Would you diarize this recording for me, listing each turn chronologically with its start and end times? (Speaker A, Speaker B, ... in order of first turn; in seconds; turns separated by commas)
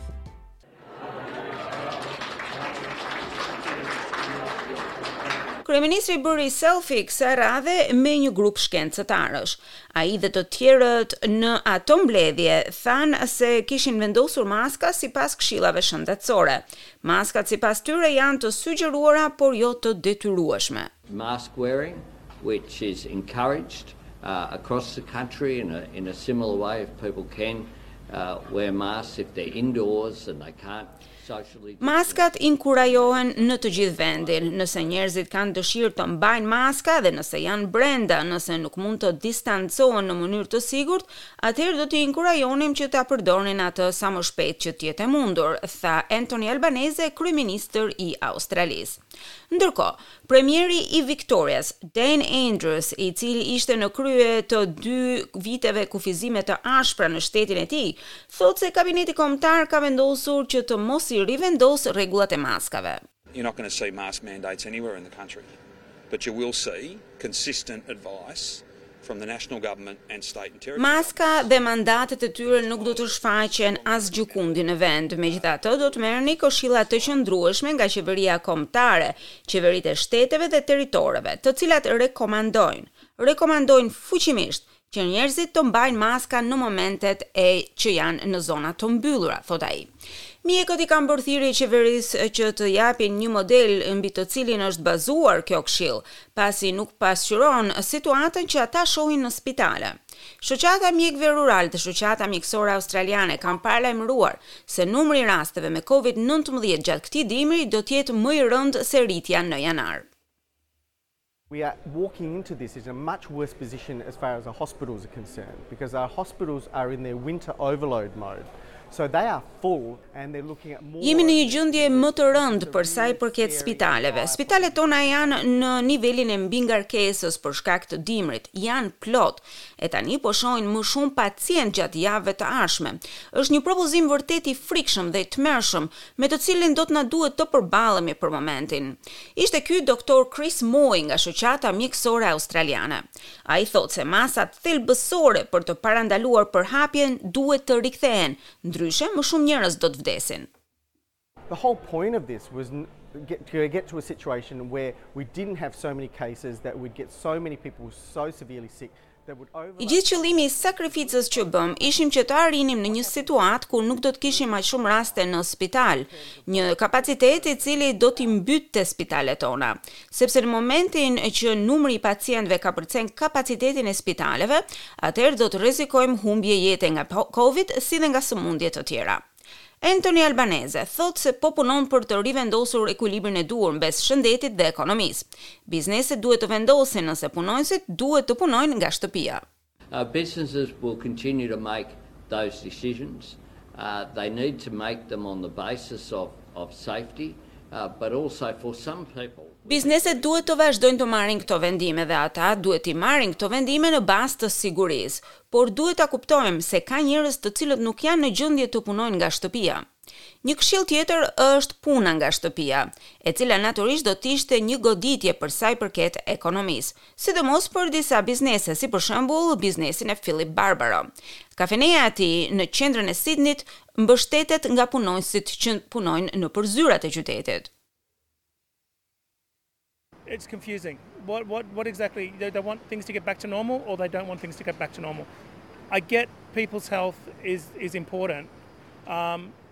Speaker A: 5.6-20.9, Speaker B: 21.1-34.9, Speaker A: 31.8-49.0, Speaker A: 49.5-63.0, Speaker C: 63.3-65.5, Speaker C: 66.1-71.5, Speaker A: 70.8-89.9, Speaker C: 72.5-76.1, Speaker A: 90.4-110.1, Speaker D: 111.5-125.9, Speaker A: 121.0-150.5, Speaker D: 151.5-165.3, Speaker A: 159.8-179.2, Speaker D: 165.9-168.4, Speaker A: 179.8-189.4, Speaker B: 189.9-200.5, Speaker A: 199.7-209.8, Speaker A: 210.4-227.7, Speaker E: 230.3-235.3, Speaker E: 235.9-238.5, Speaker E: 239.1-239.5